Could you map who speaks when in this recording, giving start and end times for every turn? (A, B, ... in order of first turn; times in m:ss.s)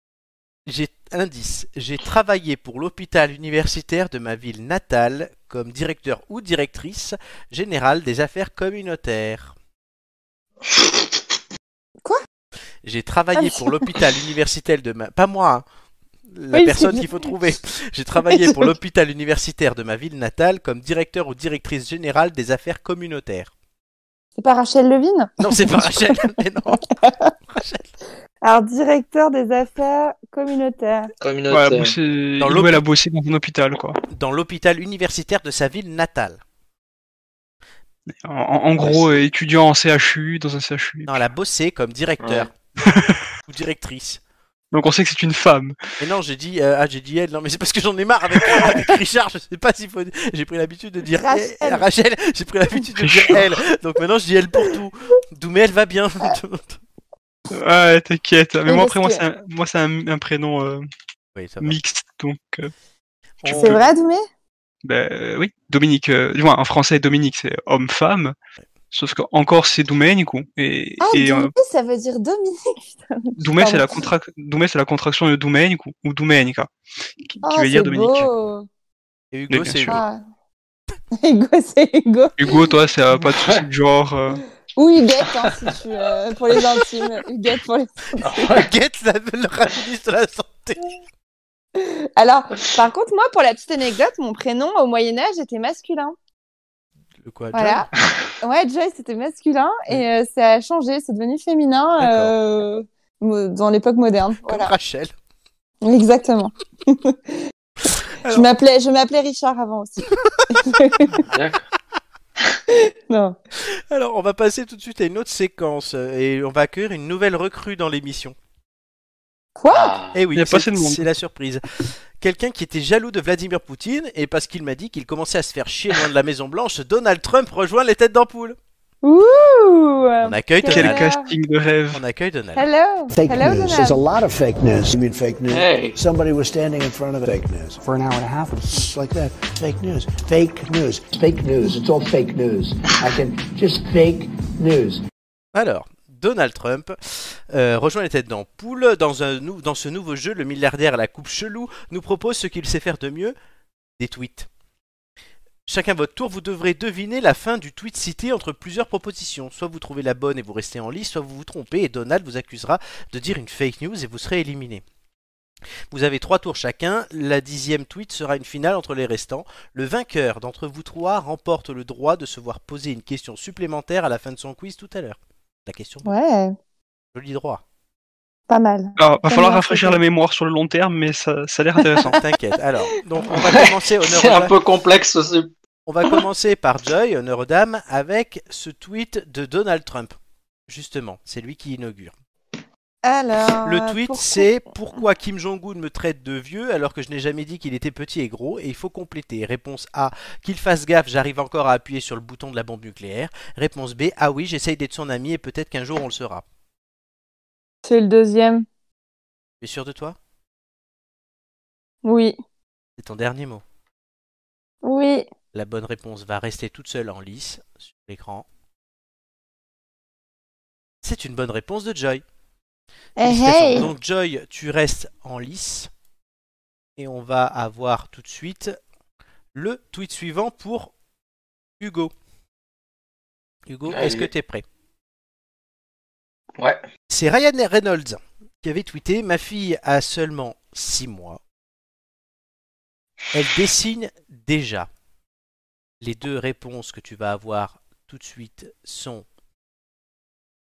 0:00.6-0:09.5 A
0:12.8-0:15.6 A
0:13.4-0:13.7 B
0:16.3-0:23.5 A
0:16.5-0:17.2 B
0:18.2-0:18.7 B
0:24.4-0:27.3 B
0:25.4-0:26.8 A
0:27.5-0:27.9 A
0:28.4-0:31.1 B
0:31.2-0:32.0 C
0:31.5-0:34.0 D
0:32.4-0:32.8 A
0:34.1-0:36.4 A
0:38.1-0:41.2 D
0:38.8-0:39.3 C
0:41.1-0:42.5 A
0:42.2-0:42.5 C
0:42.8-0:43.2 D
0:43.4-0:44.2 A
0:44.7-0:45.8 D
0:46.0-0:56.8 A
0:51.2-0:51.8 B
0:53.0-0:53.5 D
0:57.5-1:00.9 D
0:58.6-0:59.2 B
1:01.3-1:01.8 A
1:01.6-1:02.7 D
1:03.4-1:03.8 A
1:03.5-1:04.2 B
1:03.5-1:03.8 D
1:04.8-1:08.4 D
1:08.9-1:11.5 D
1:11.0-1:14.0 B
1:13.4-1:16.7 D
1:17.3-1:18.3 D
1:17.4-1:18.7 B
1:19.3-1:20.0 A
1:19.5-1:20.0 D
1:19.9-1:20.2 B
1:21.2-1:22.7 B
1:22.4-1:24.4 D
1:23.1-1:23.6 C
1:24.8-1:28.5 B
1:28.2-1:28.7 C
1:28.4-1:30.9 A
1:31.8-1:36.1 B
1:37.2-1:37.8 A
1:37.5-1:37.9 B
1:38.4-1:44.7 B
1:42.0-1:42.3 A
1:44.4-1:45.1 A
1:45.8-1:47.4 B
1:47.8-1:48.5 A
1:48.3-1:51.2 B
1:51.2-1:51.7 C
1:52.7-1:53.4 B
1:53.7-1:58.4 A
1:59.6-2:00.0 B
1:59.7-2:00.2 C
2:00.1-2:08.6 A
2:00.4-2:01.0 D
2:09.0-2:11.3 B
2:10.2-2:11.0 A
2:10.7-2:12.0 D
2:11.9-2:12.6 A
2:12.6-2:14.0 B
2:13.1-2:25.0 E
2:15.5-2:16.0 C
2:25.5-2:33.3 A
2:34.0-2:34.5 A
2:35.6-2:44.8 A
2:45.9-2:56.1 A
2:56.0-2:56.5 B
2:57.1-2:57.6 A
2:58.5-3:00.0 B
2:59.0-3:02.2 D
3:02.0-3:04.5 A
3:03.3-3:05.5 C
3:05.8-3:10.2 A
3:10.7-3:12.1 A
3:13.0-3:14.5 B
3:13.6-3:26.4 A
3:27.8-3:28.6 B
3:29.6-3:30.2 A
3:32.0-3:32.4 B
3:33.0-3:33.6 A
3:34.8-3:35.3 B
3:35.5-3:38.4 A
3:41.0-3:42.2 A
3:43.2-3:43.9 B
3:43.2-3:45.9 A
3:47.0-3:48.8 A
3:49.5-3:50.9 A
3:51.8-3:52.1 A
3:53.7-3:54.6 A
3:53.9-3:54.3 C
3:57.1-4:01.4 A
4:03.3-4:04.9 A
4:06.0-4:09.2 A